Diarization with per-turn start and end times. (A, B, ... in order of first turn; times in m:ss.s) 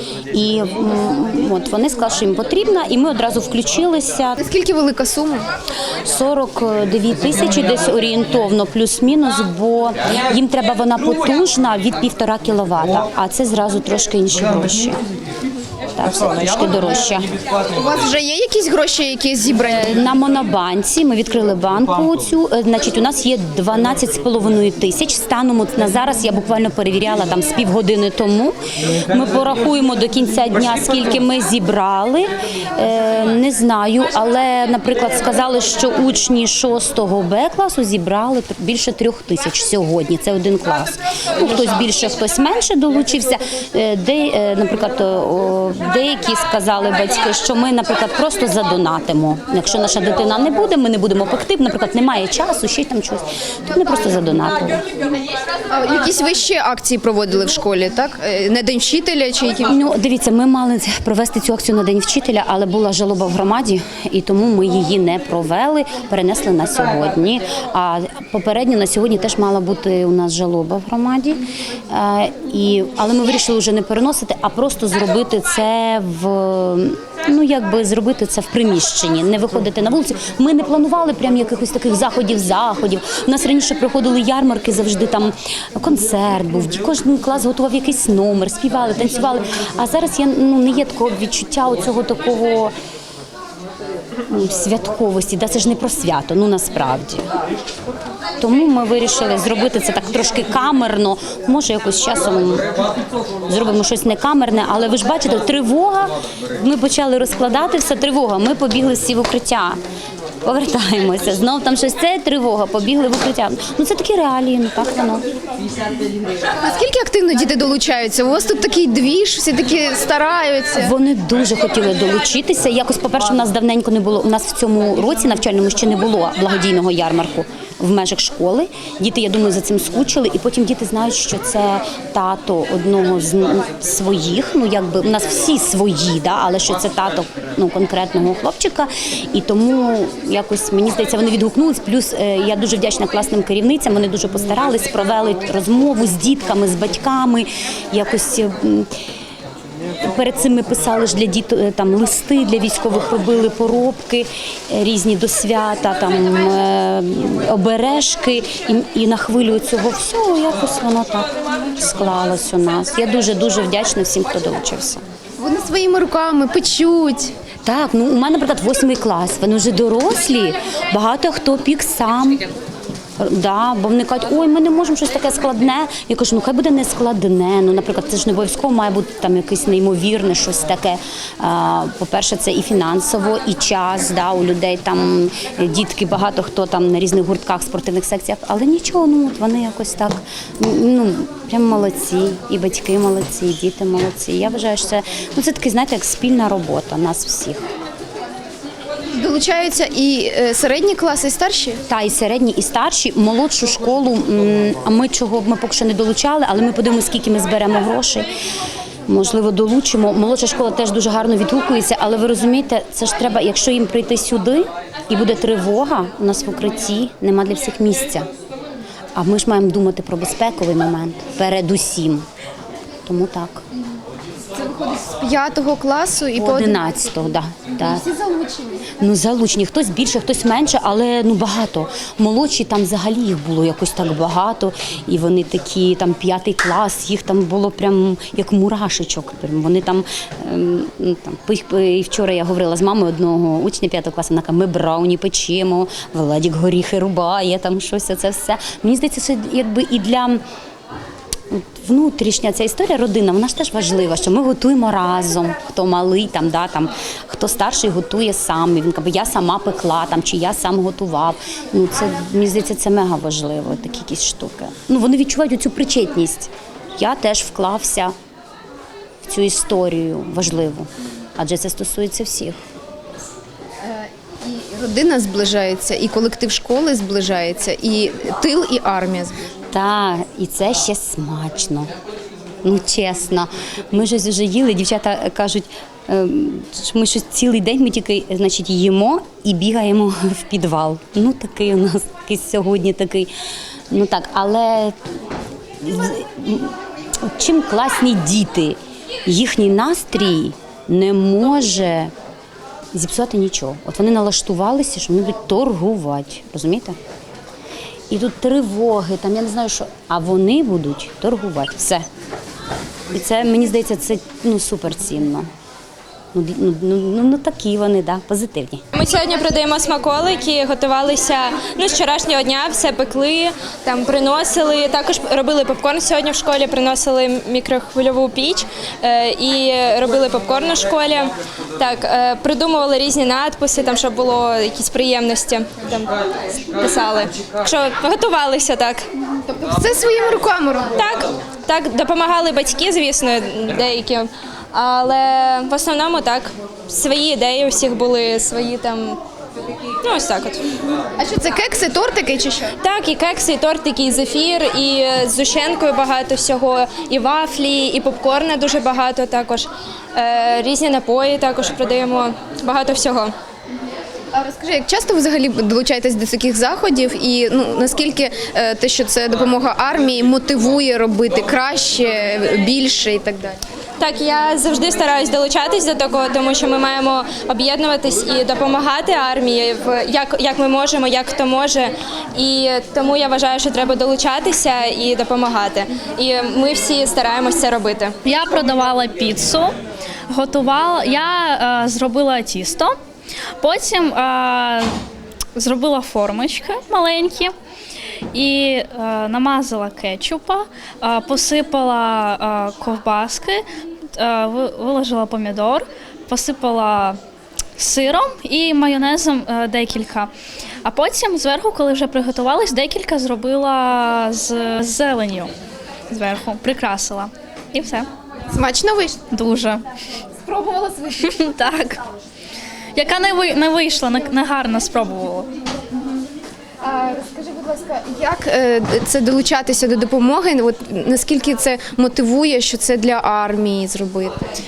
0:00.3-0:04.4 A
0:04.4-0:05.5 B
0:06.0-0:15.0 A
0:16.0-0:17.3 A
0:17.7-0:19.8 B
0:19.8-0:54.8 A
0:55.7-0:59.8 B
0:59.7-1:32.8 A
1:34.3-1:37.2 A
1:38.4-1:42.7 A
1:43.5-1:49.8 A
1:50.4-1:55.3 A
1:56.6-2:00.9 B
2:00.8-2:28.9 A
2:30.0-2:45.0 A
2:45.4-2:47.4 B
2:47.6-2:52.5 A
2:53.2-3:17.6 A
3:19.1-3:21.8 B
3:21.9-3:28.3 A
3:29.1-3:38.3 A
3:39.2-3:42.3 A
3:43.0-3:43.6 A
3:44.5-3:47.2 B
3:46.4-3:48.0 A
3:47.8-3:48.9 B
3:49.0-4:10.4 A
4:11.5-4:28.1 A
4:29.2-4:32.6 A
4:33.8-4:39.5 B
4:39.7-4:41.9 A
4:42.6-4:53.3 A
4:53.9-4:55.0 A
4:55.8-5:02.1 A
5:02.9-5:07.0 A
5:08.1-5:12.0 A
5:13.1-5:15.5 A
5:16.3-5:18.8 A
5:18.9-5:39.1 C
5:39.5-5:41.0 B
5:40.9-5:49.2 C
5:50.0-5:50.7 C
5:51.2-5:52.8 B
5:52.8-6:03.3 C
6:04.3-6:13.6 B
6:14.0-6:28.2 C
6:28.2-6:29.8 D
6:30.3-6:33.0 D
6:33.6-6:34.9 D
6:35.6-6:37.5 D
6:38.3-6:47.2 D
6:47.8-6:50.3 D
6:50.8-6:55.5 D
6:56.1-6:58.1 D
6:58.5-6:59.2 B
6:59.3-6:59.8 D
7:00.5-7:01.2 B
7:01.1-7:02.0 D
7:03.0-7:05.5 D
7:06.8-7:14.5 B